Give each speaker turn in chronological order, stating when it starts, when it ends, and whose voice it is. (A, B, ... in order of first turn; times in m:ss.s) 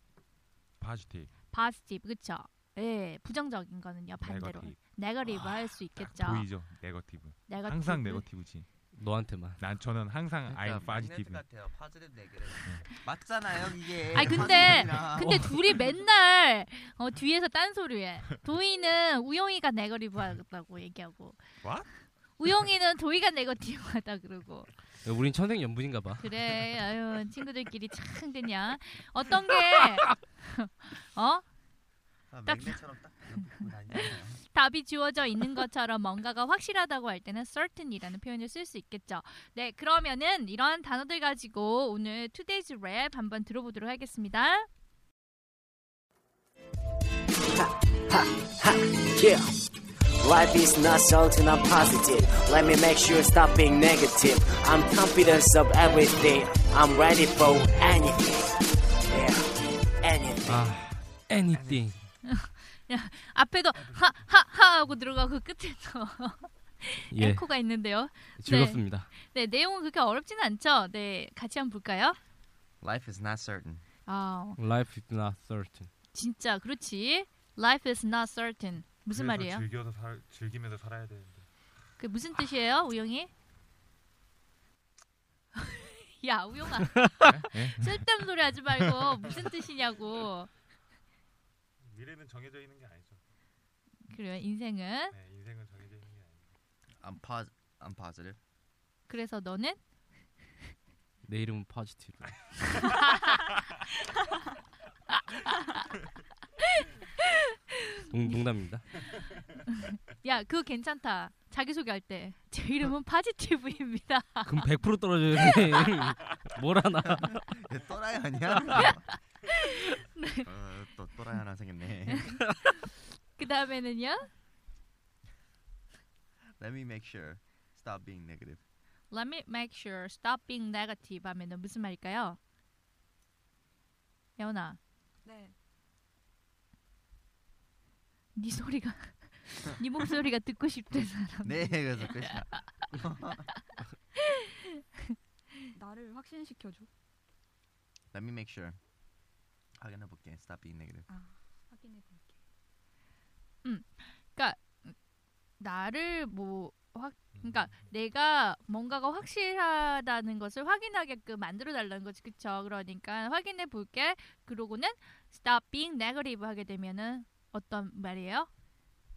0:00.8-0:01.3 A
0:01.5-0:06.5 B
0:04.2-0:08.7 A
0:07.5-0:08.3 B
0:08.9-0:09.6 C
0:09.6-0:11.4 A
0:10.5-0:15.5 D
0:12.6-0:12.9 A
0:14.1-0:24.7 B
0:15.1-0:15.5 C
0:21.6-0:21.9 A
0:25.0-0:26.3 C
0:26.2-0:31.4 B
0:32.3-0:34.4 D
0:32.5-0:32.8 B
0:34.0-0:44.7 B
0:49.2-0:49.5 E
0:50.2-0:58.3 E
0:59.1-0:59.4 E
1:00.0-1:00.6 E
1:00.4-1:02.0 C
1:01.5-1:02.0 A
1:02.2-1:12.2 B
1:07.1-1:07.5 C
1:08.4-1:09.1 C
1:12.8-1:13.8 D
1:14.1-1:14.6 B
1:14.6-1:15.9 C
1:16.1-1:19.7 B
1:19.1-1:21.5 A
1:22.0-1:23.3 B
1:25.6-1:30.5 B
1:27.2-1:28.1 A
1:31.8-1:33.2 A
1:34.1-1:35.1 B
1:35.1-1:36.5 A
1:37.0-1:38.4 D
1:39.1-1:39.8 B
1:41.2-1:42.5 C
1:43.1-1:43.4 B
1:45.5-1:45.8 B
1:46.8-1:48.4 B
1:48.1-1:48.9 C
1:49.7-1:54.6 B
1:54.4-1:57.5 C
1:57.0-1:59.1 D
1:59.5-2:00.5 B
2:00.4-2:02.3 D
2:02.8-2:04.3 B
2:06.6-2:08.6 D
2:09.1-2:12.4 B
2:14.4-2:14.8 B
2:15.2-2:15.5 F
2:18.4-2:23.0 B
2:21.4-2:23.4 D
2:24.2-2:24.5 B
2:25.8-2:26.9 F
2:28.1-2:28.8 D
2:29.8-2:31.1 D
2:31.1-2:32.4 F
2:33.6-2:34.9 B
2:35.6-2:48.5 B
2:37.4-2:37.7 A